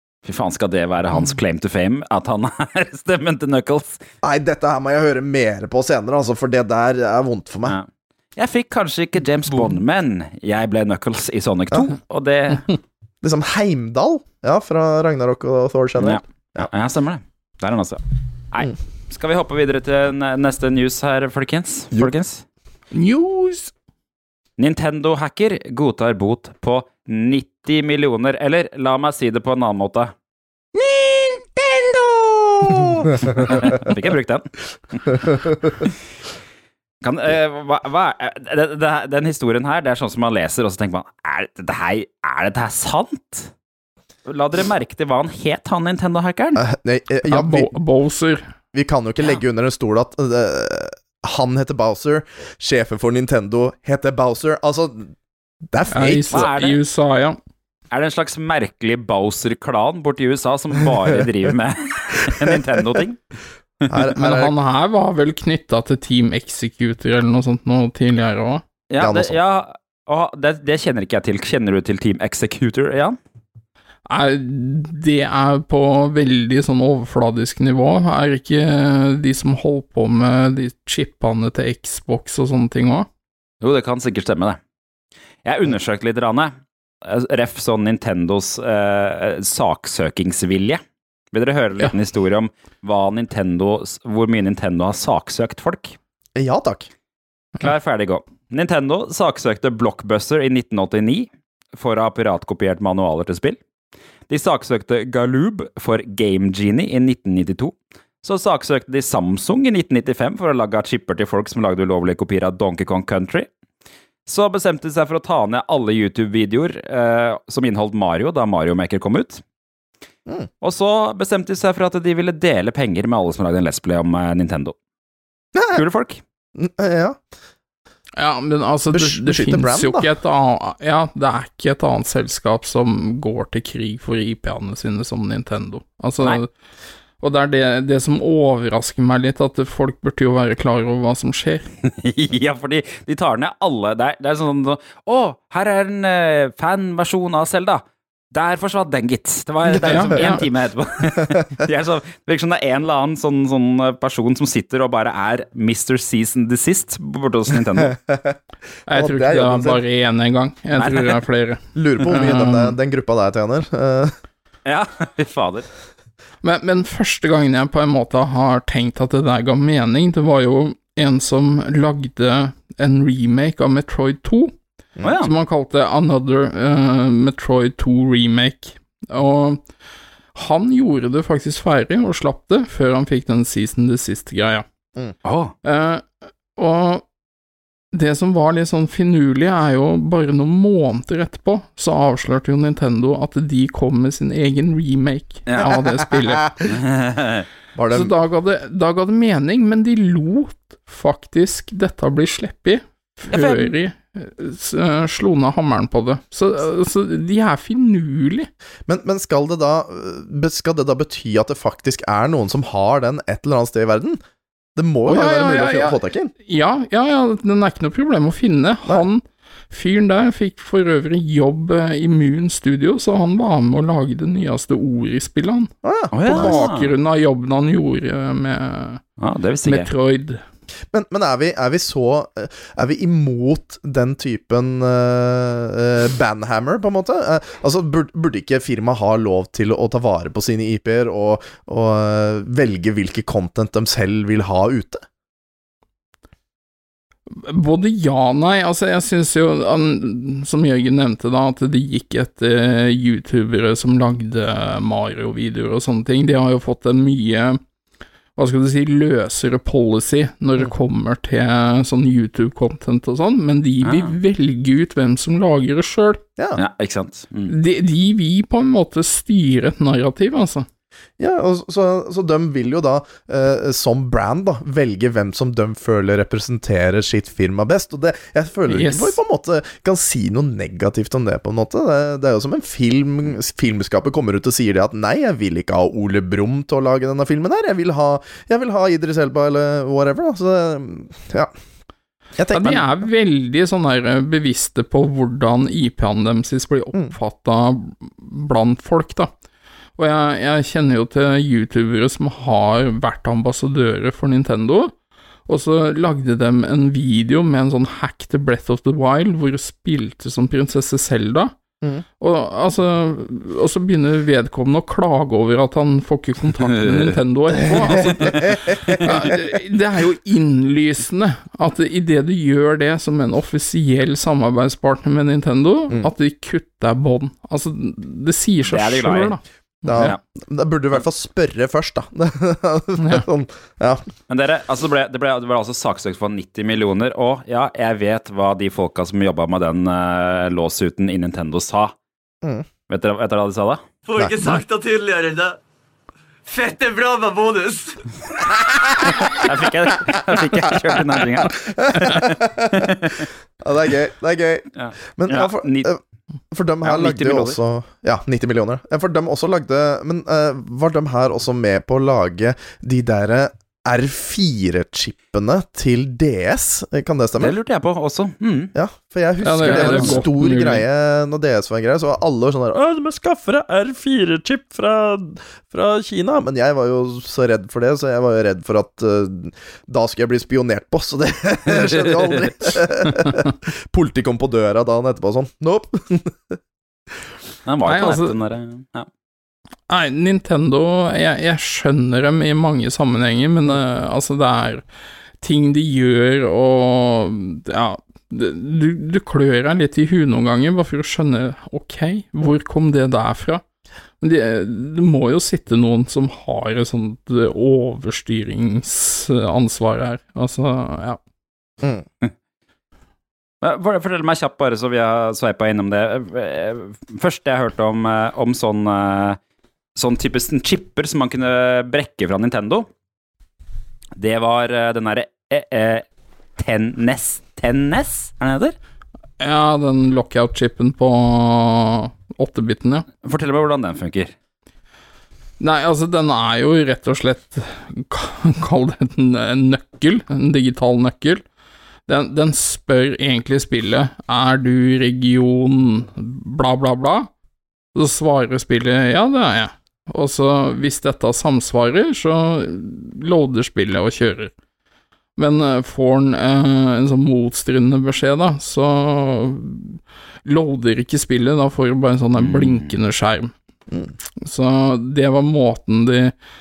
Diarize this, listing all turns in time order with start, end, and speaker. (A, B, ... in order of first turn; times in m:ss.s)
0:00.2-0:04.0 A
0:04.2-0:07.8 B
0:07.7-0:12.7 A
0:13.2-0:16.7 B
0:16.0-0:22.4 A
0:22.9-0:23.7 C
0:24.6-0:30.1 A
0:33.2-0:33.5 B
0:33.2-0:35.2 A
0:37.0-0:43.5 A
0:44.3-0:46.6 A
0:46.6-0:47.7 B
0:47.3-0:48.4 C
0:48.7-0:55.1 B
0:55.7-0:56.5 B
0:55.9-0:57.4 C
0:56.3-0:56.8 A
0:57.9-1:03.2 A
1:03.9-1:04.6 B
1:04.2-1:08.6 C
1:08.9-1:13.2 A
1:09.0-1:09.4 B
1:14.1-1:23.1 C
1:23.6-1:24.6 A
1:25.4-1:30.8 A
1:31.3-1:36.0 A
1:36.4-1:36.9 B
1:37.6-1:43.6 A
1:44.3-1:53.5 A
1:54.3-1:59.4 A
2:00.6-2:04.8 A
2:05.6-2:05.8 B
2:05.7-2:06.2 A
2:06.6-2:07.2 B
2:08.2-2:16.5 C
2:08.9-2:10.1 B
2:17.2-2:21.7 C
2:21.8-2:37.9 A
2:29.7-2:30.4 C
2:30.1-2:30.4 B
2:37.8-2:39.8 B
2:38.9-2:42.8 C
2:40.8-2:41.2 A
2:41.8-2:44.2 B
2:44.7-2:45.7 A
2:46.4-2:54.5 C
2:55.0-2:55.3 A
2:55.2-2:59.6 C
3:00.4-3:04.6 C
3:05.2-3:05.5 A
3:05.6-3:07.0 C
3:07.9-3:16.6 C
3:15.5-3:15.8 A
3:15.7-3:16.6 B
3:16.7-3:17.5 A
3:17.8-3:18.1 B
3:17.9-3:28.5 C
3:23.3-3:23.7 A
3:28.9-3:34.2 B
3:34.8-3:36.3 B
3:35.1-3:45.7 C
3:45.8-3:46.6 B
3:46.1-3:46.9 A
3:46.3-3:49.0 C
3:49.2-3:49.9 A
3:49.6-3:50.4 C
3:50.9-4:05.1 B
4:07.3-4:17.6 C
4:18.4-4:26.2 C
4:23.8-4:24.1 A
4:26.6-4:27.5 A
4:27.5-4:30.7 C
4:31.2-4:51.5 B
4:38.7-4:39.2 C
4:52.4-4:52.9 B
4:52.5-4:59.3 C
5:00.0-5:04.9 C
5:05.5-5:11.5 C
5:12.2-5:30.1 C
5:16.7-5:17.2 A
5:18.0-5:19.1 A
5:28.7-5:29.4 A
5:29.8-5:34.0 B
5:33.0-5:33.3 C
5:34.3-5:41.9 A
5:42.9-5:43.8 A
5:44.0-5:45.6 D
5:46.5-5:48.0 D
5:49.3-5:53.3 A
5:51.4-5:52.9 B
5:53.6-5:56.0 B
5:54.8-5:55.9 A
5:56.5-6:07.6 B
5:56.8-5:57.6 A
6:07.4-6:08.7 A
6:08.8-6:26.6 B
6:09.4-6:10.8 C
6:09.6-6:10.2 A
6:21.7-6:22.4 A
6:27.7-6:29.1 A
6:27.9-6:28.4 C
6:29.9-6:34.8 C
6:35.4-6:43.6 C
6:44.2-6:51.2 C
6:53.6-6:59.4 A
7:00.0-7:02.9 A
7:04.2-7:06.1 A
7:06.6-7:08.8 A
7:09.4-7:13.1 C
7:13.2-7:14.3 A
7:15.6-7:21.4 C
7:22.1-7:27.3 C
7:28.0-7:34.5 C
7:35.4-7:43.5 C
7:42.4-7:42.9 A
7:44.4-7:46.3 C